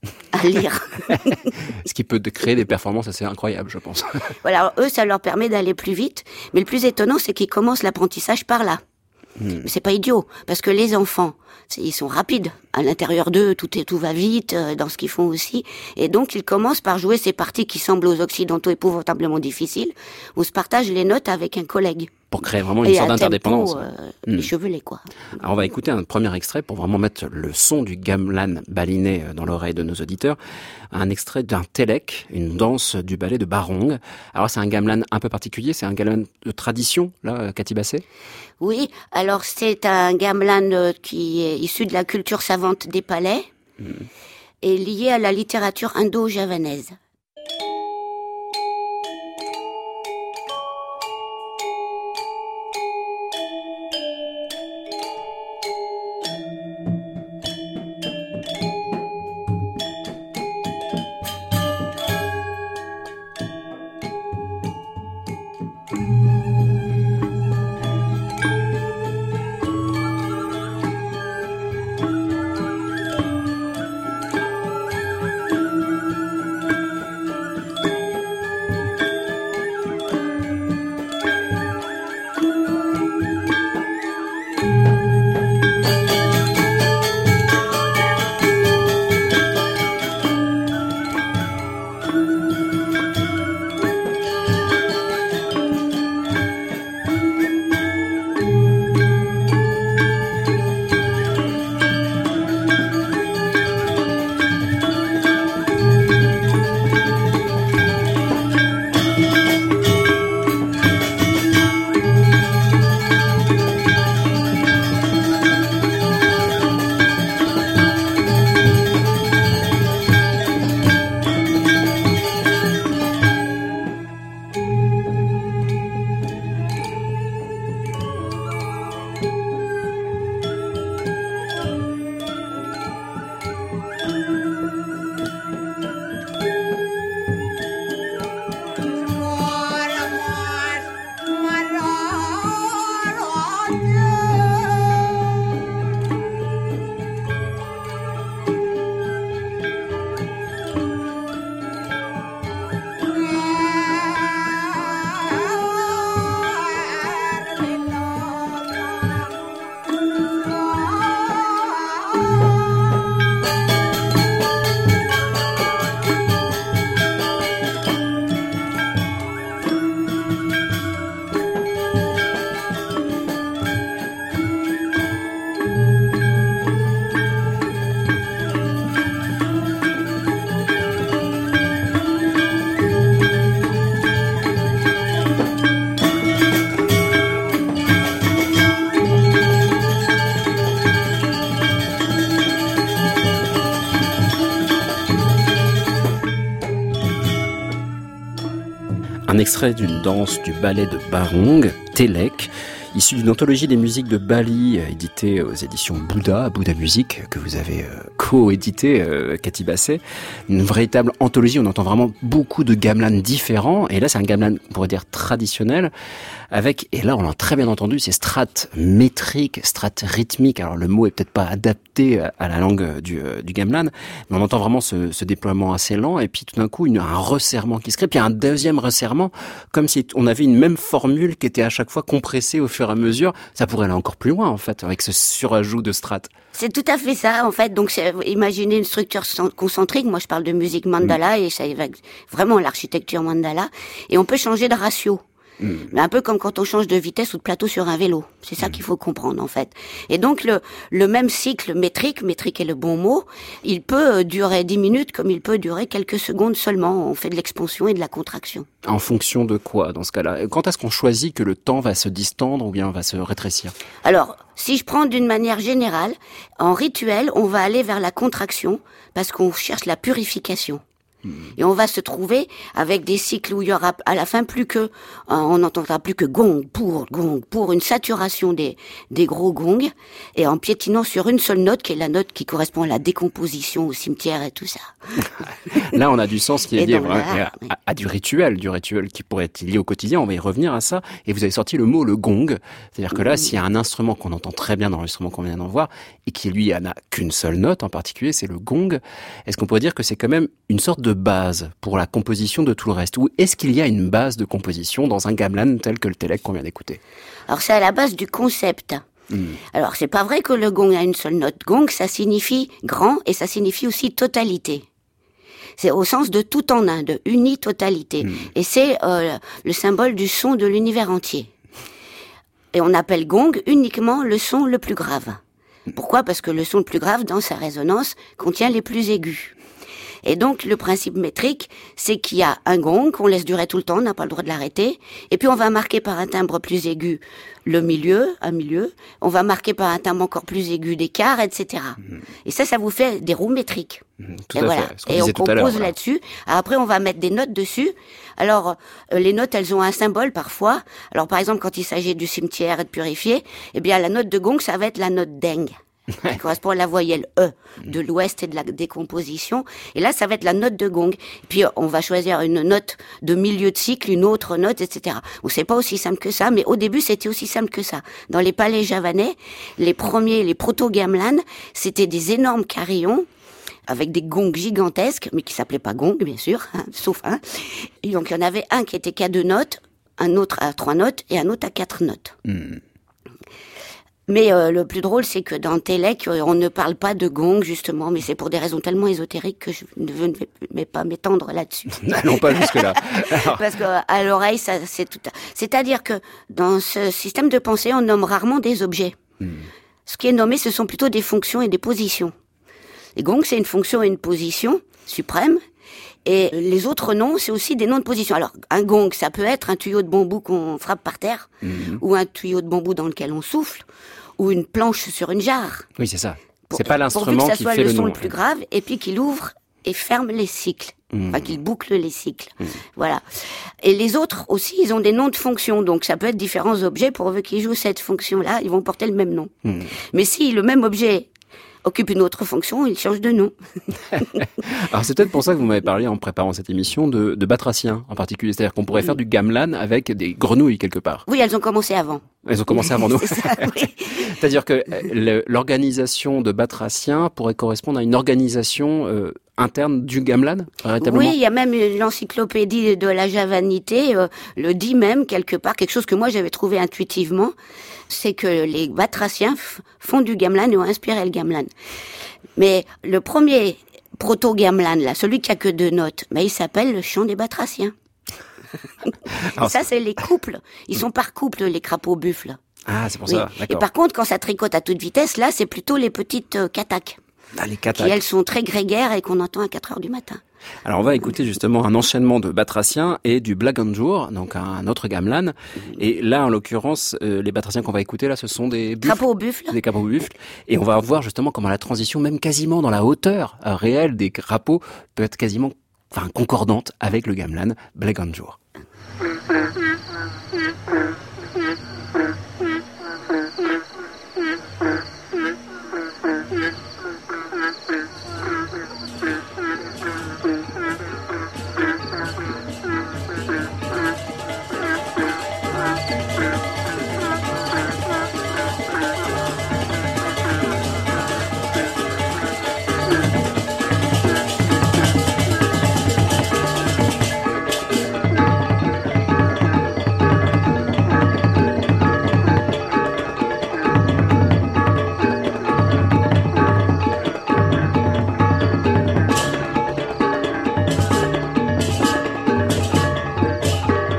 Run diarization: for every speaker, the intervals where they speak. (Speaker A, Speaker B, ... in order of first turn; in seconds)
Speaker A: 0.3-1.4, 4.4-8.8, 9.6-22.2, 22.8-25.0, 38.6-43.5, 44.6-47.0, 236.6-245.2, 245.9-258.7, 264.1-270.8, 271.6-284.9, 286.8-287.6, 307.5-309.0, 309.7-314.9, 315.8-321.5, 322.7-325.4, 325.9-329.6, 330.2-344.0, 344.6-355.8, 356.3-373.3, 373.9-382.4, 384.3-399.2, 400.1-402.3, 403.2-405.6, 406.3-411.5, 412.0-413.9, 414.4-415.9, 416.7-423.2, 423.8-429.5, 430.1-431.3, 431.9-433.5, 441.3-444.3, 451.0-457.5, 458.1-461.7, 462.6-467.9, 469.6-472.6, 473.3-477.2, 478.0-480.4, 489.0-489.8
Speaker B: 1.7-4.3, 9.4-9.7, 22.3-24.5, 25.4-30.4, 30.9-38.0, 199.3-215.9, 216.5-236.3, 245.6-245.9, 258.9-263.7, 285.7-307.0, 309.3-309.6, 344.2-345.9, 382.5-382.8, 392.0-393.6, 399.4-399.7, 411.6-412.0, 416.0-418.3, 421.1-421.5, 429.7-429.9, 434.1-441.3, 442.5-451.4, 469.4-469.9, 472.9-473.9, 477.6-478.2, 480.9-498.6